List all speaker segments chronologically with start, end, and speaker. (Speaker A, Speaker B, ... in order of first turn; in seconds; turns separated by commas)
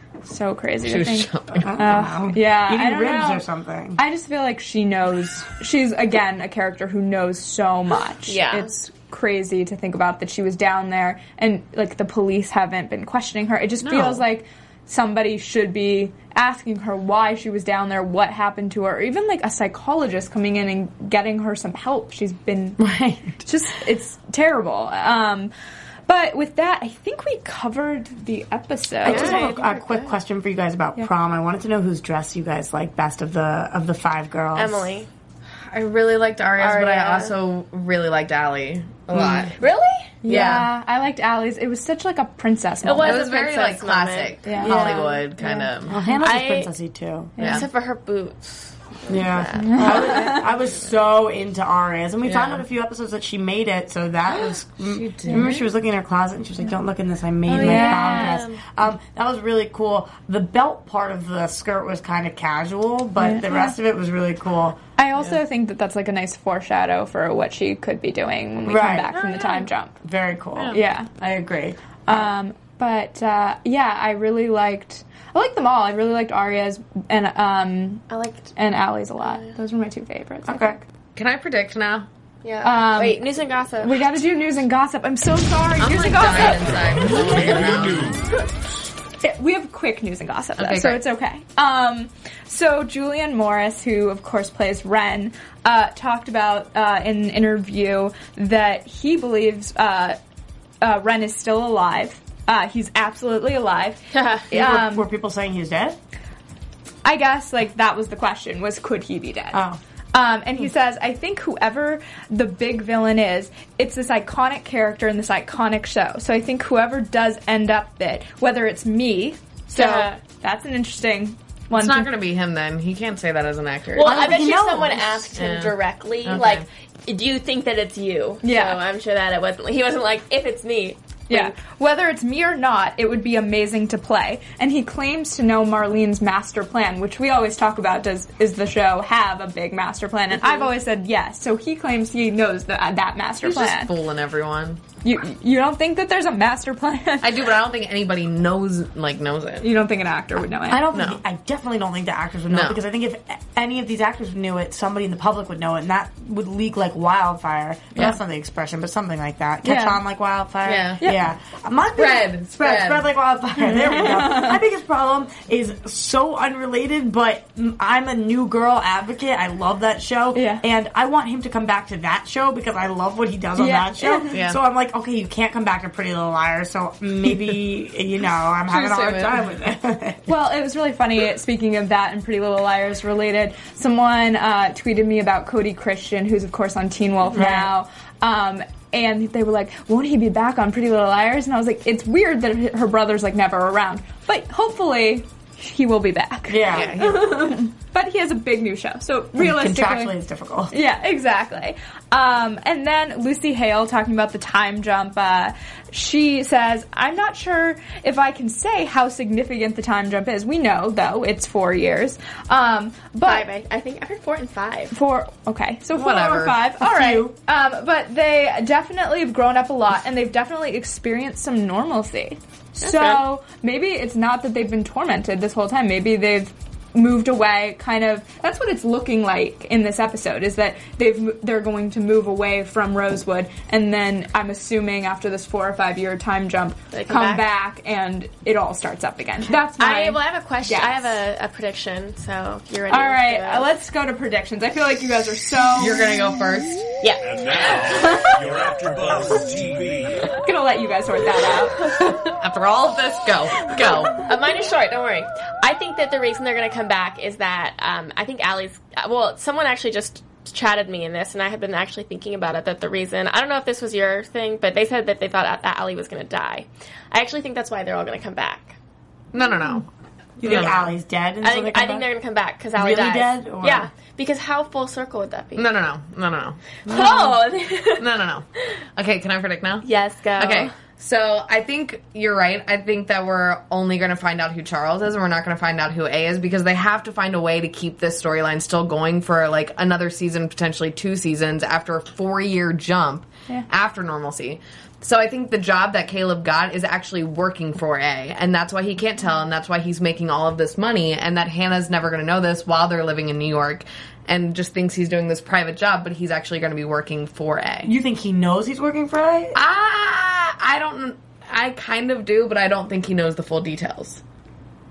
Speaker A: 0.3-3.5, Speaker B: 0.8-1.7, Speaker C: 1.5-4.0, Speaker A: 4.0-22.8, Speaker D: 8.3-8.7, Speaker B: 13.8-14.2, Speaker C: 22.8-23.4, Speaker A: 23.4-25.5, Speaker A: 26.1-29.4, Speaker D: 29.0-30.1, Speaker C: 29.0-35.0, Speaker D: 34.5-35.1, Speaker B: 35.7-39.6, Speaker D: 36.6-37.3, Speaker C: 39.1-39.5, Speaker D: 39.6-40.1, Speaker A: 40.2-43.2, Speaker B: 40.2-40.7, Speaker D: 42.8-45.5, Speaker B: 43.0-46.0, Speaker A: 44.4-45.7, Speaker C: 45.9-47.3, Speaker D: 46.1-46.7, Speaker D: 47.4-50.9, Speaker B: 47.4-47.7, Speaker A: 47.4-47.6, Speaker C: 49.1-64.8, Speaker A: 49.6-50.5, Speaker B: 52.2-52.6, Speaker B: 54.3-55.6, Speaker A: 57.5-58.4, Speaker B: 57.5-58.5, Speaker A: 63.2-63.7, Speaker A: 65.0-70.0, Speaker C: 68.6-69.1, Speaker D: 69.1-69.7, Speaker C: 70.0-72.3, Speaker A: 70.7-71.1, Speaker A: 72.1-80.8, Speaker D: 78.1-78.5, Speaker D: 79.2-79.5, Speaker C: 80.5-80.8, Speaker B: 81.2-82.1, Speaker D: 82.4-84.0, Speaker A: 82.6-83.2, Speaker A: 83.8-86.9, Speaker B: 85.8-88.2, Speaker E: 87.1-88.2, Speaker A: 89.2-100.2, Speaker B: 90.6-91.0, Speaker A: 100.8-105.1, Speaker D: 104.1-104.5, Speaker C: 104.5-106.0, Speaker A: 107.0-109.6, Speaker C: 109.5-109.8, Speaker A: 110.1-122.1, Speaker D: 119.7-120.2, Speaker B: 121.7-124.5, Speaker D: 123.9-131.6, Speaker C: 124.0-125.3, Speaker B: 125.3-126.6, Speaker A: 128.4-128.8, Speaker A: 131.3-143.9, Speaker B: 143.4-144.8, Speaker A: 145.0-147.5, Speaker B: 147.2-149.7, Speaker A: 149.6-150.9, Speaker C: 150.7-180.2, Speaker B: 150.9-151.2, Speaker B: 152.5-152.8, Speaker A: 159.6-160.0, Speaker B: 160.6-161.0, Speaker B: 162.0-163.1, Speaker A: 163.6-164.6, Speaker A: 170.3-170.6, Speaker A: 173.6-174.4, Speaker B: 174.3-174.6, Speaker B: 178.7-179.3, Speaker A: 180.3-200.1, Speaker C: 187.3-187.7, Speaker C: 196.5-197.1, Speaker B: 196.7-197.2, Speaker C: 199.4-200.7, Speaker A: 200.7-213.5, Speaker D: 213.2-214.9, Speaker A: 214.9-241.2, Speaker B: 215.9-216.6, Speaker C: 216.0-217.3, Speaker D: 222.8-223.2, Speaker D: 236.9-237.4, Speaker D: 239.8-243.7, Speaker A: 242.9-246.0, Speaker B: 245.8-246.8, Speaker D: 247.0-247.9, Speaker E: 247.2-250.3, Speaker A: 247.9-248.3, Speaker A: 250.3-251.8, Speaker B: 252.0-254.2, Speaker D: 254.2-268.8, Speaker B: 269.3-269.9, Speaker C: 270.4-272.1, Speaker B: 270.4-270.9, Speaker D: 271.4-275.7, Speaker C: 272.7-273.9, Speaker B: 275.5-307.9, Speaker D: 276.9-278.0, Speaker D: 279.8-280.7, Speaker C: 307.8-309.6, Speaker B: 309.5-314.2